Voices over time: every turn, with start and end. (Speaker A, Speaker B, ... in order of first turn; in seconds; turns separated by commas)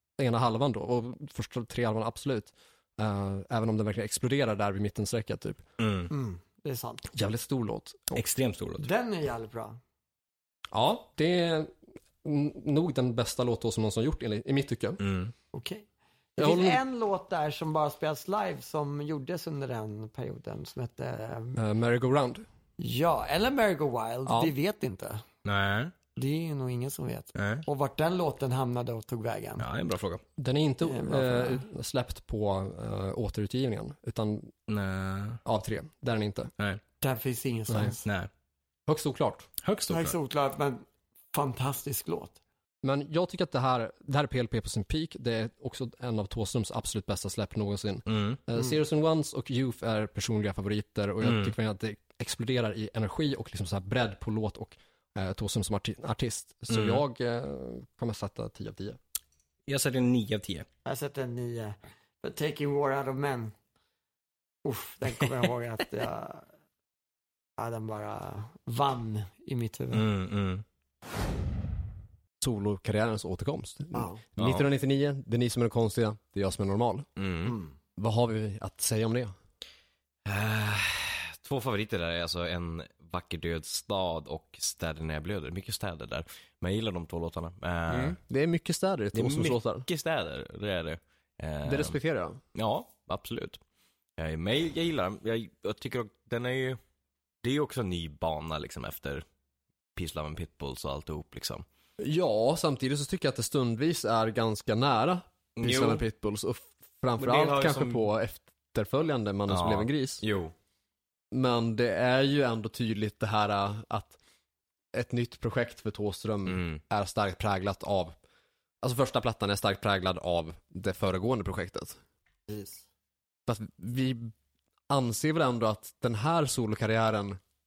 Speaker A: 0.2-5.6, Speaker B: 5.8-6.1, Speaker C: 6.1-7.1, Speaker A: 7.1-8.2, Speaker B: 8.1-8.9, Speaker C: 8.8-9.8, Speaker A: 10.7-11.7, Speaker A: 12.2-15.0, Speaker B: 15.0-15.3, Speaker C: 15.5-15.8, Speaker C: 16.4-21.6, Speaker A: 16.4-16.8, Speaker A: 21.6-22.4, Speaker C: 22.8-25.2, Speaker A: 24.3-24.5, Speaker B: 25.4-25.9, Speaker C: 26.1-29.6, Speaker B: 27.3-27.6, Speaker B: 29.6-30.2, Speaker A: 30.4-34.5, Speaker C: 30.8-31.6, Speaker B: 34.7-35.4, Speaker A: 35.4-36.5, Speaker C: 37.0-38.0, Speaker A: 37.7-37.9, Speaker B: 38.0-38.3, Speaker A: 38.9-39.5, Speaker B: 39.6-40.1, Speaker C: 39.9-42.4, Speaker A: 42.8-59.0, Speaker B: 48.1-48.4, Speaker B: 51.2-51.5, Speaker B: 56.7-57.0, Speaker B: 59.7-60.6, Speaker C: 60.8-63.5, Speaker C: 64.6-66.5, Speaker C: 67.6-70.0, Speaker B: 69.9-70.6, Speaker A: 72.4-77.1, Speaker C: 73.9-74.2, Speaker B: 74.4-74.6, Speaker B: 77.2-77.6, Speaker C: 77.5-77.7, Speaker A: 78.0-79.3, Speaker B: 80.2-88.2, Speaker A: 87.9-89.8, Speaker B: 89.1-92.0, Speaker A: 91.6-92.4, Speaker B: 92.5-93.6, Speaker B: 94.2-96.8, Speaker B: 97.4-99.2, Speaker B: 100.0-101.6, Speaker A: 102.0-110.2, Speaker B: 105.5-106.0, Speaker B: 107.2-108.0, Speaker B: 109.5-110.5, Speaker A: 111.3-114.2, Speaker A: 114.9-118.2, Speaker B: 116.5-116.8, Speaker A: 118.8-122.0, Speaker C: 122.5-122.8, Speaker A: 123.5-124.3, Speaker A: 124.9-127.4